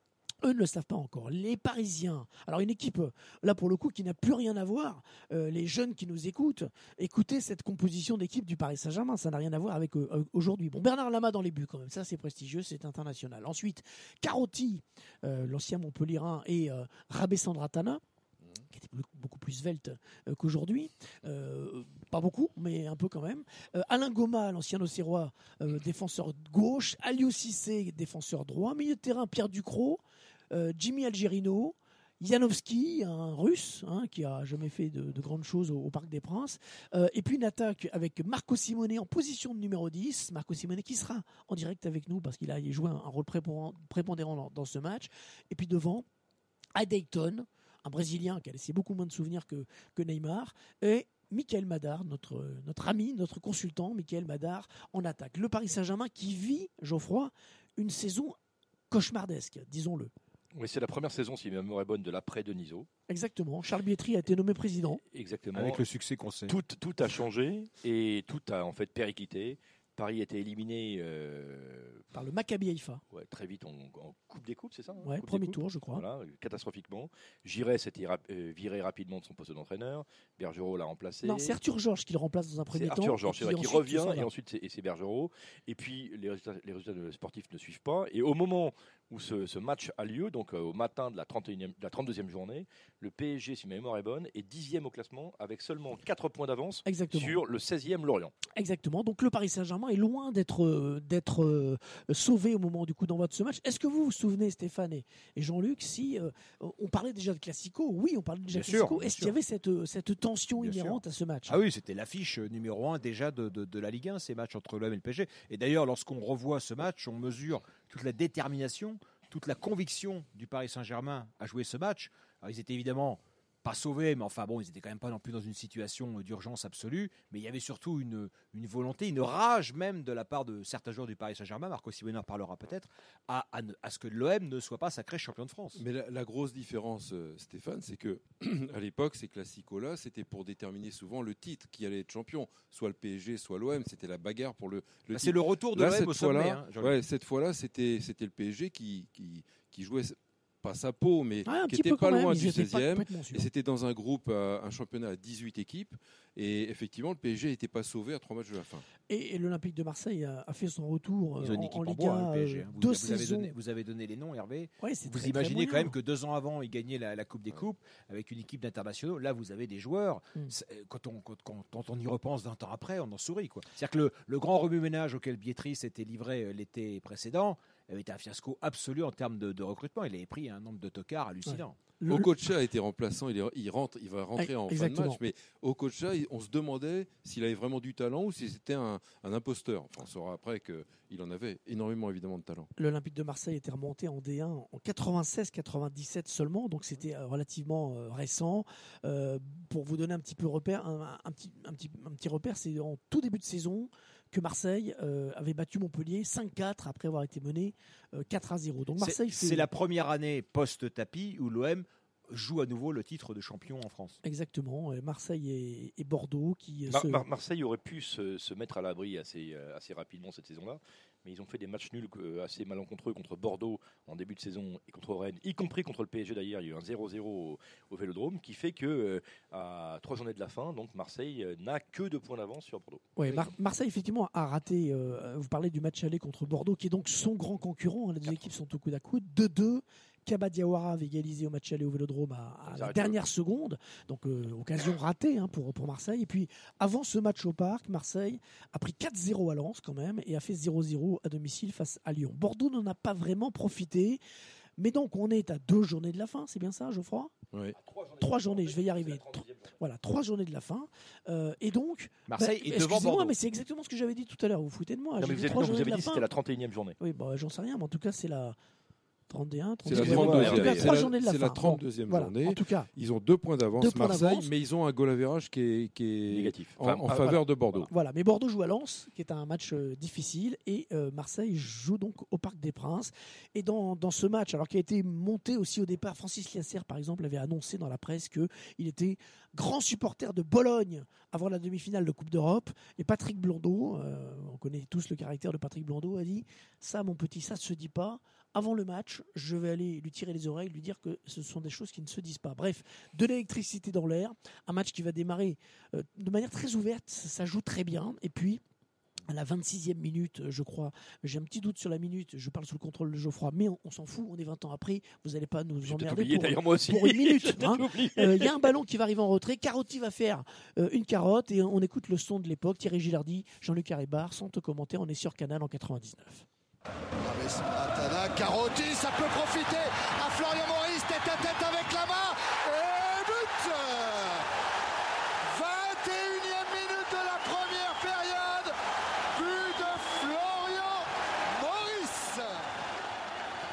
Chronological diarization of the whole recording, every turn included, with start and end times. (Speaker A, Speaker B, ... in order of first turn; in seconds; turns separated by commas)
Speaker A: 0.4-18.0, Speaker A: 18.7-46.0, Speaker A: 46.8-58.3, Speaker A: 58.9-60.1, Speaker B: 60.5-62.9, Speaker A: 63.1-65.0, Speaker B: 65.1-65.8, Speaker C: 65.5-66.5, Speaker B: 66.5-72.0, Speaker A: 72.1-73.0, Speaker B: 73.1-81.6, Speaker A: 75.0-76.0, Speaker A: 81.2-84.3, Speaker B: 82.7-98.3, Speaker A: 96.8-97.4, Speaker A: 98.5-111.6, Speaker C: 108.5-109.4, Speaker C: 110.6-135.8, Speaker D: 135.8-158.8, Speaker C: 145.1-147.0, Speaker A: 151.4-153.4, Speaker A: 159.1-163.5, Speaker C: 161.4-181.8, Speaker A: 164.8-165.9, Speaker A: 181.4-182.3, Speaker D: 182.1-192.7, Speaker A: 184.3-185.2, Speaker A: 192.8-209.7, Speaker C: 209.0-214.2, Speaker A: 214.2-217.2, Speaker B: 216.9-233.5, Speaker A: 233.2-254.2, Speaker B: 242.7-243.2, Speaker A: 254.8-257.3, Speaker B: 257.8-259.8, Speaker A: 258.2-266.3, Speaker C: 262.3-263.3, Speaker B: 265.2-267.0, Speaker A: 267.0-268.6, Speaker A: 269.3-272.9, Speaker D: 269.8-277.9, Speaker B: 269.9-270.9, Speaker A: 273.8-274.5, Speaker B: 276.3-277.9, Speaker A: 277.1-308.6, Speaker A: 309.3-326.4, Speaker B: 315.8-318.7, Speaker E: 327.2-334.4, Speaker E: 335.4-338.7, Speaker E: 339.3-342.5